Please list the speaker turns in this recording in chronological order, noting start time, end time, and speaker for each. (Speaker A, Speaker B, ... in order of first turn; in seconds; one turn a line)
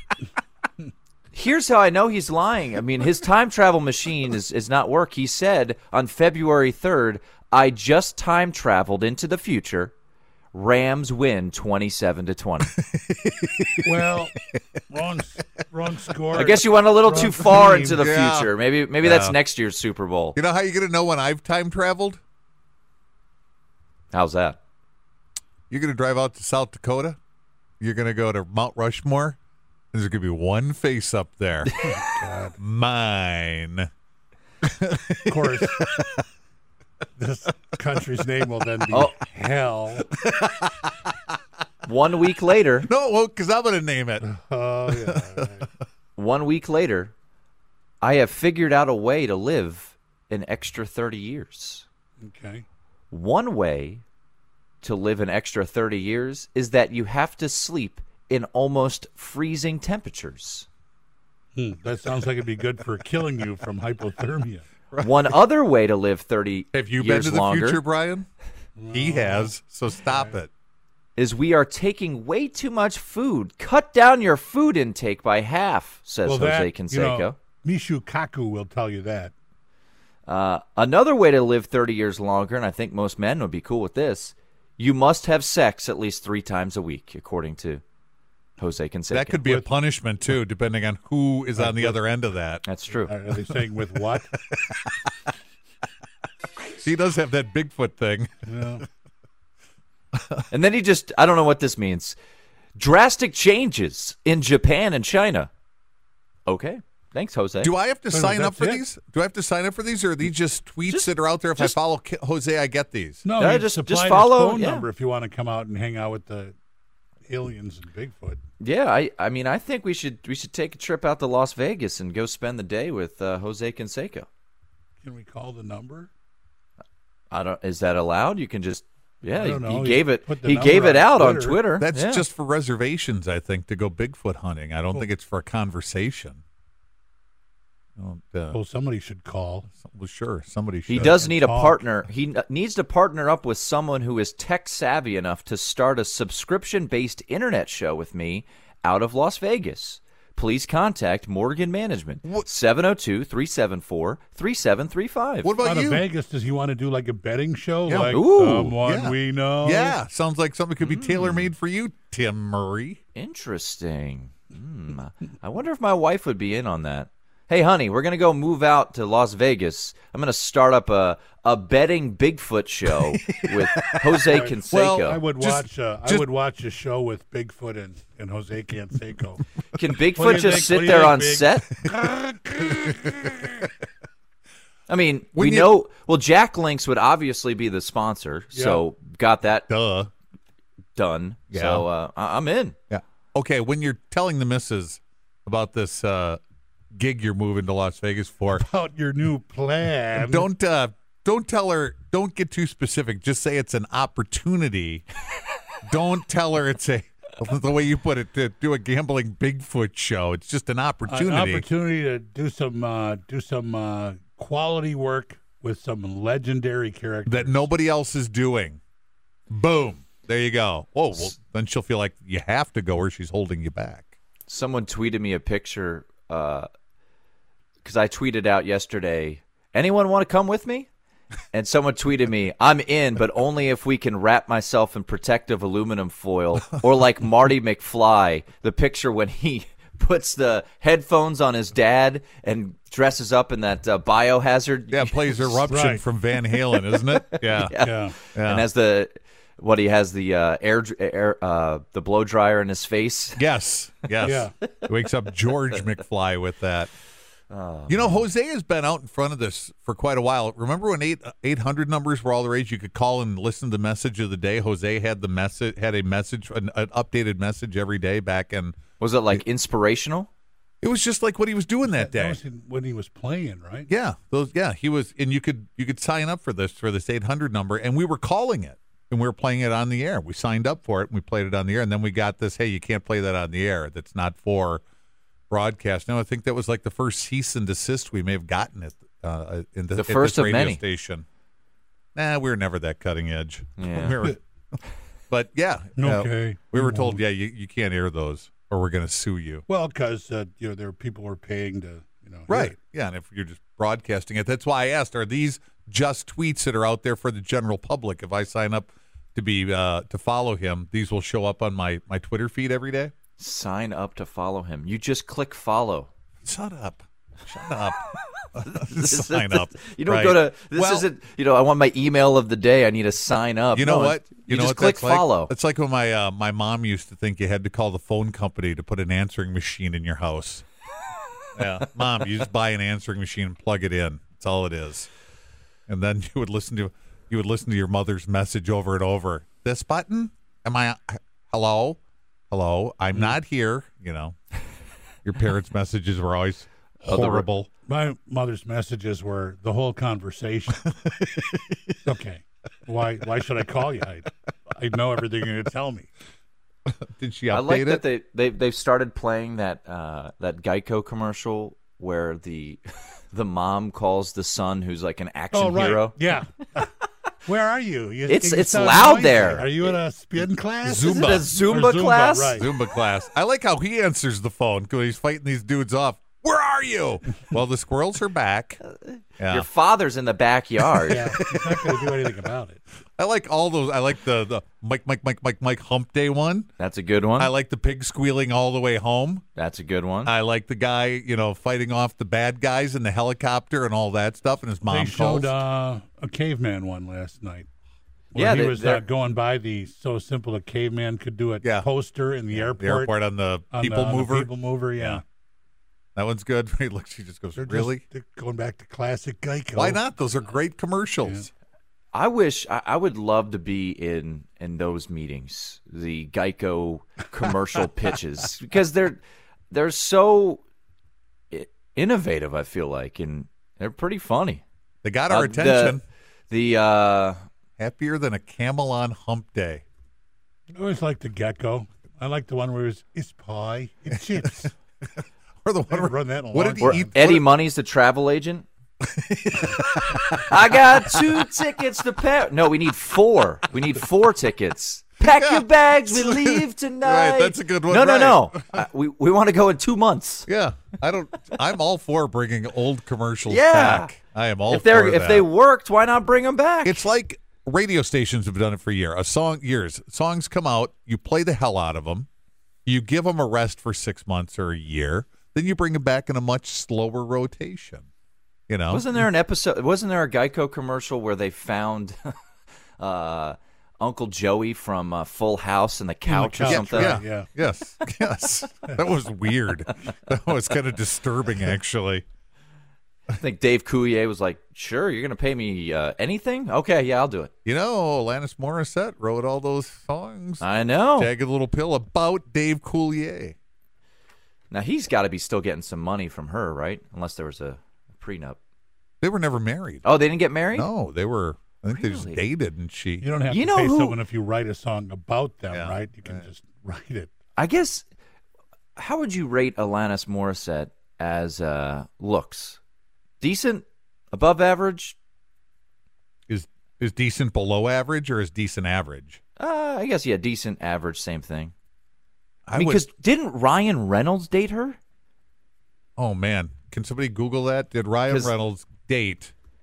Speaker A: 1.3-9.9
Speaker A: 10.5-12.7
Speaker B: 12.9-13.9
Speaker C: 13.8-18.1
Speaker A: 16.3-20.4
Speaker B: 18.0-19.4
Speaker B: 20.4-22.2
Speaker A: 24.1-24.6
Speaker B: 25.7-27.2
Speaker B: 27.8-29.4
Speaker B: 29.9-31.9
Speaker C: 31.9-32.6
Speaker B: 32.6-33.9
Speaker B: 34.6-36.2
Speaker C: 35.3-35.8
Speaker C: 37.2-40.1
Speaker A: 38.9-39.2
Speaker B: 40.2-40.7
Speaker A: 41.8-42.9
Speaker B: 42.9-44.2
Speaker C: 44.2-45.6
Speaker B: 44.9-45.7
Speaker A: 46.2-47.1
Speaker A: 48.0-51.9
Speaker C: 52.2-52.6
Speaker A: 53.1-54.0
Speaker A: 54.8-60.7
Speaker C: 61.5-64.6
Speaker B: 64.9-65.3
Speaker A: 65.0-67.8
Speaker B: 66.7-68.3
Speaker C: 68.8-69.6
Speaker B: 68.9-70.5
Speaker A: 71.2-77.4
Speaker C: 76.2-79.3
Speaker A: 80.3-87.8
Speaker A: 88.6-89.5
Speaker B: 89.1-92.6
Speaker C: 91.6-92.0
Speaker A: 92.6-93.1
Speaker C: 92.9-94.3
Speaker B: 94.4-95.0
Speaker B: 96.8-98.6
Speaker C: 98.5-98.8
Speaker B: 100.2-100.4
Speaker A: 100.5-102.2
Speaker A: 102.8-105.5
Speaker A: 106.5-107.7
Speaker B: 107.6-113.2
Speaker C: 108.1-108.8
Speaker A: 110.9-111.8
Speaker C: 113.2-116.5
Speaker A: 113.4-114.8
Speaker C: 117.2-118.4
Speaker A: 118.6-124.3
Speaker C: 125.0-126.1
Speaker A: 127.3-132.2
Speaker C: 129.3-131.6
Speaker B: 131.8-136.4
Speaker B: 138.0-138.6
Speaker C: 138.5-139.7
Speaker B: 139.7-141.2
Speaker A: 140.9-155.5
Speaker C: 141.0-141.8
Speaker B: 155.4-156.0
Speaker C: 155.6-160.0
Speaker B: 157.9-158.2
Speaker A: 158.1-158.8
Speaker B: 158.8-163.0
Speaker A: 160.8-161.5
Speaker A: 163.2-175.2
Speaker B: 173.9-174.2
Speaker C: 174.3-179.4
Speaker B: 174.7-176.3
Speaker A: 179.7-181.7
Speaker C: 180.1-183.5
Speaker A: 184.9-189.7
Speaker B: 185.3-185.7
Speaker C: 188.5-188.8
Speaker B: 189.7-190.1
Speaker A: 191.0-192.8
Speaker B: 191.5-191.9
Speaker B: 192.9-196.4
Speaker B: 196.9-198.7
Speaker C: 198.5-200.5
Speaker B: 200.2-205.1
Speaker B: 205.9-211.7
Speaker C: 211.1-217.7
Speaker B: 217.3-218.8
Speaker B: 219.5-224.2
Speaker A: 224.5-226.7
Speaker A: 227.8-230.9
Speaker A: 231.5-245.7
Speaker B: 244.9-247.8
Speaker C: 245.7-246.0
Speaker A: 246.6-253.4
Speaker C: 247.8-248.2
Speaker B: 248.3-248.7
Speaker B: 253.4-256.9
Speaker C: 254.2-254.5
Speaker A: 257.5-258.2
Speaker B: 257.9-268.8
Speaker A: 269.0-270.3
Speaker B: 270.8-272.4
Speaker C: 271.9-273.9
Speaker B: 273.9-284.8
Speaker B: 285.5-291.2
Speaker A: 289.9-290.8
Speaker B: 292.1-294.4
Speaker A: 293.8-294.2
Speaker B: 295.3-299.6
Speaker C: 296.0-297.2
Speaker C: 299.7-302.8
Speaker B: 302.5-313.1
Speaker A: 313.4-316.1
Speaker B: 316.4-321.1
Speaker A: 318.6-325.5
Speaker B: 323.7-330.6
Speaker B: 331.6-335.1
Speaker B: 335.9-342.0
Speaker B: 342.5-344.4
Speaker B: 345.2-347.7
Speaker A: 347.0-347.5
Speaker C: 347.9-350.8
Speaker B: 351.1-351.8
Speaker C: 352.1-356.1
Speaker B: 356.9-358.1
Speaker A: 357.5-362.8
Speaker A: 363.3-366.2
Speaker C: 365.5-366.9
Speaker C: 367.4-372.7
Speaker A: 368.3-370.0
Speaker B: 370.8-371.5
Speaker A: 371.0-372.6
Speaker B: 372.6-378.8
Speaker B: 379.4-379.7
Speaker A: 379.4-381.3
Speaker B: 381.0-382.4
Speaker C: 381.1-382.8
Speaker B: 383.2-386.7
Speaker A: 386.8-387.5
Speaker B: 387.4-389.4
Speaker A: 389.6-390.3
Speaker B: 390.2-395.5
Speaker C: 394.9-397.7
Speaker C: 398.3-403.1
Speaker A: 398.4-399.0
Speaker B: 401.6-401.9
Speaker B: 402.5-405.2
Speaker C: 403.7-405.2
Speaker B: 406.2-408.0
Speaker C: 407.6-410.0
Speaker B: 409.8-411.5
Speaker A: 412.1-420.6
Speaker A: 421.5-424.6
Speaker B: 425.0-426.0
Speaker A: 425.3-427.4
Speaker B: 427.8-429.8
Speaker C: 430.7-434.7
Speaker B: 435.2-437.5
Speaker C: 435.9-437.2
Speaker A: 436.8-438.7
Speaker B: 439.0-440.2
Speaker A: 440.3-450.5
Speaker B: 445.3-448.8
Speaker B: 450.5-455.5
Speaker A: 453.4-454.1
Speaker A: 454.7-457.1
Speaker B: 456.8-462.3
Speaker B: 462.9-468.1
Speaker B: 468.7-469.1
Speaker A: 468.9-472.3
Speaker A: 473.0-477.2
Speaker C: 476.3-477.5
Speaker B: 476.7-482.2
Speaker A: 483.3-487.5
Speaker B: 487.6-493.6
Speaker A: 490.6-491.3
Speaker A: 494.7-498.6
Speaker B: 499.2-500.1
Speaker A: 500.0-500.9
Speaker B: 500.7-503.3
Speaker A: 501.9-502.4
Speaker C: 503.2-507.3
Speaker A: 503.5-504.2
Speaker B: 505.7-506.5
Speaker A: 507.6-508.1
Speaker A: 509.0-512.8
Speaker A: 513.4-515.2
Speaker B: 516.5-519.4
Speaker A: 519.6-521.7
Speaker B: 522.7-523.0
Speaker A: 522.7-525.0
Speaker B: 526.2-529.5
Speaker A: 528.3-528.5